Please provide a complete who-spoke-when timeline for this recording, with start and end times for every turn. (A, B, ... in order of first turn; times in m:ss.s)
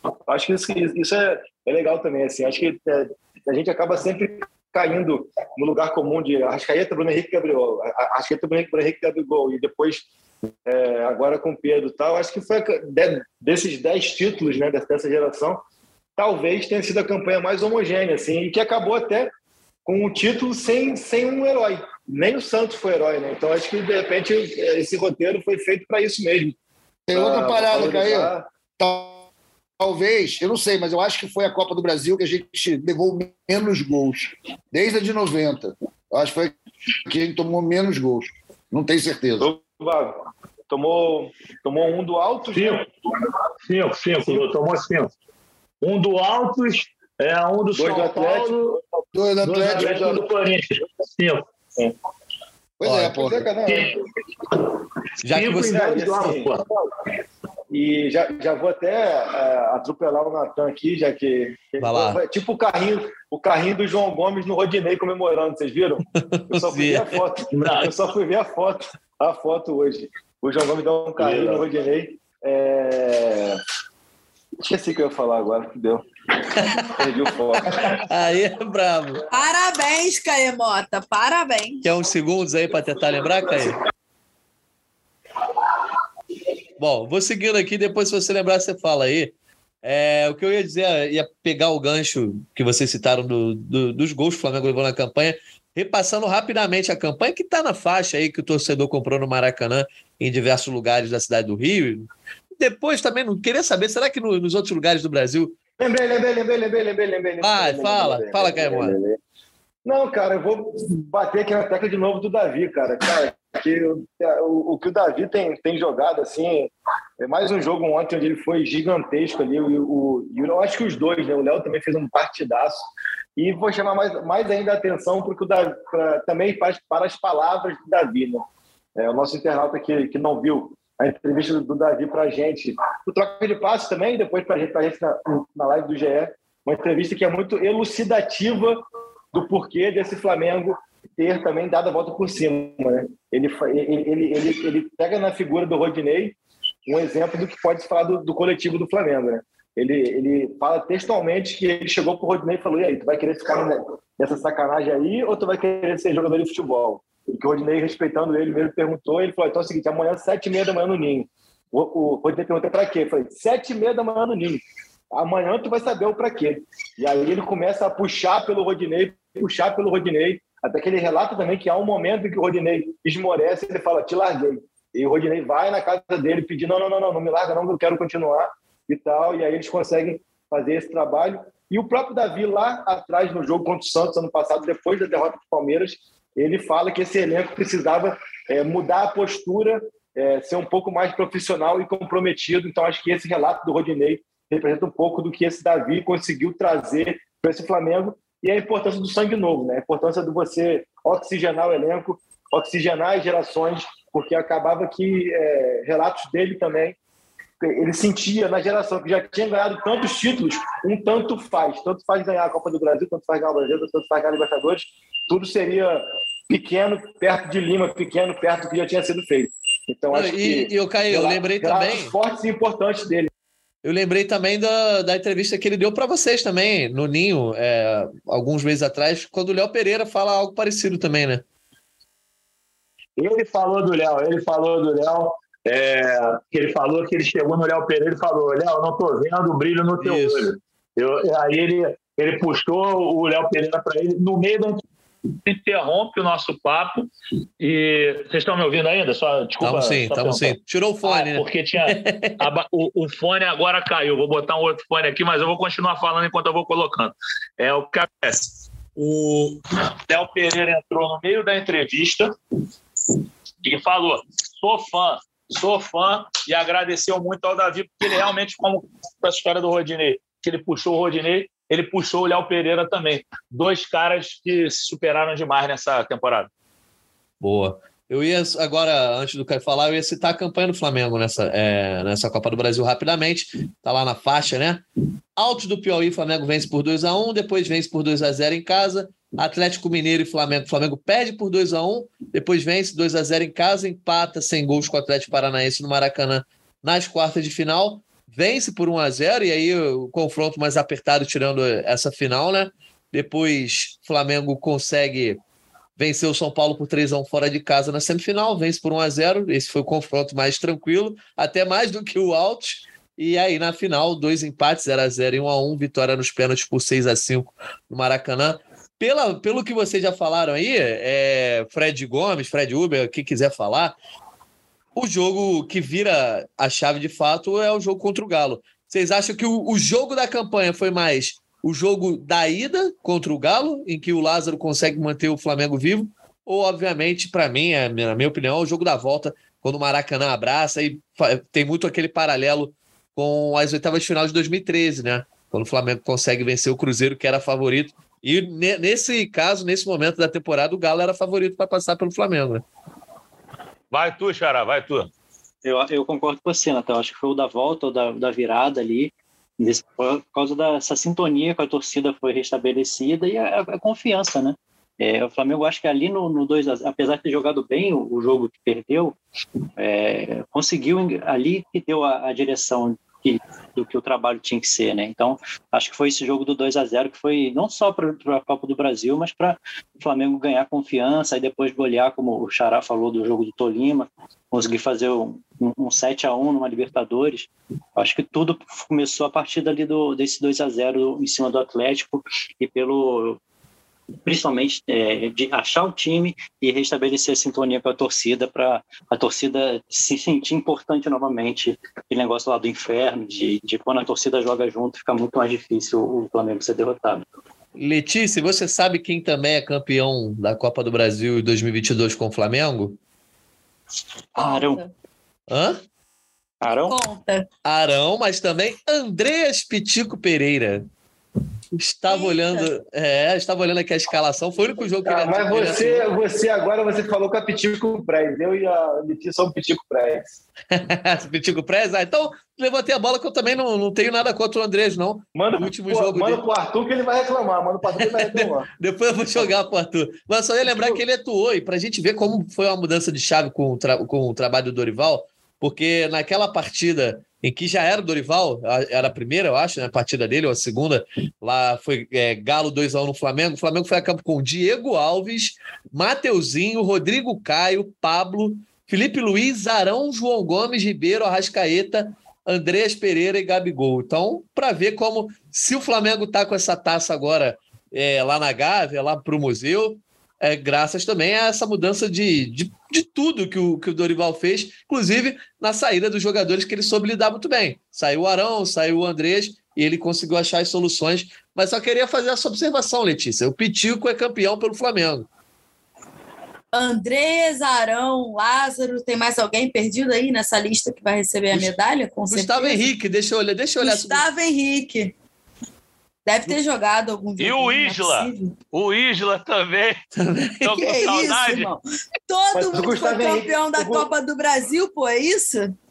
0:00.3-0:10.0 A
0:10.7-0:15.6 A
0:16.2-0:19.3 A
0:19.9-0:26.6 A
0:27.1-0:29.2 B
0:27.1-0:28.5 A
0:29.8-0:36.6 B
0:37.1-0:39.5 B
0:39.4-0:40.1 A
0:40.7-0:42.9 A
0:42.5-0:42.8 C
0:43.7-0:45.1 C
0:45.8-0:48.8 C
0:47.7-0:48.8 A
0:49.1-0:50.2 B
0:49.4-0:51.4 C
0:52.8-0:53.5 B
0:52.8-0:53.2 D
0:53.0-0:54.0 A
0:55.2-0:55.8 D
0:55.2-0:56.6 C
0:55.6-0:56.5 A
0:57.7-1:13.6 A
1:01.8-1:02.2 D
1:06.1-1:07.2 D
1:07.5-1:07.9 C
1:11.2-1:11.6 C
1:14.6-1:16.0 A
1:16.6-1:16.9 D
1:16.6-1:18.0 A
1:17.8-1:19.2 D
1:19.3-1:21.9 E
1:21.8-1:23.8 D
1:26.8-1:42.1 D
1:42.6-1:45.6 D
1:45.8-1:49.2 A
1:47.4-1:49.0 D
1:49.8-2:02.8 A
2:03.4-2:08.4 A
2:09.0-2:18.8 A
2:19.3-2:26.4 A
2:26.9-3:27.0 A
3:27.6-3:43.3 A
3:40.1-3:42.2 D
3:43.8-3:51.4 D
3:53.2-4:04.8 C
4:00.0-4:00.5 D
4:05.5-4:07.1 C
4:07.6-4:22.3 C
4:09.6-4:12.5 D
4:23.6-4:36.5 C
4:37.4-4:44.8 D
4:45.4-5:05.4 D
5:06.0-5:24.0 D
5:25.0-5:52.6 D
5:53.9-5:55.1 C
5:55.6-6:09.2 F
6:09.8-6:33.4 F
6:34.2-6:47.3 F
6:47.8-6:53.0 D
6:54.4-6:54.8 F
6:54.4-6:54.9 E
6:55.5-6:55.8 D
6:56.6-6:57.0 F
6:56.9-6:57.5 E
6:57.6-7:00.9 D
7:01.7-7:06.0 D
7:02.1-7:02.7 E
7:05.0-7:10.3 A
7:10.7-7:16.4 D
7:15.4-7:18.7 A
7:18.0-8:05.3 D
7:20.6-7:21.0 A
8:06.7-8:12.9 E
8:12.3-8:14.2 D
8:13.8-8:15.1 E
8:16.3-8:18.6 E
8:17.4-8:20.0 C
8:20.2-8:20.8 D
8:20.6-8:21.7 C
8:20.7-8:25.8 E
8:22.5-8:24.1 A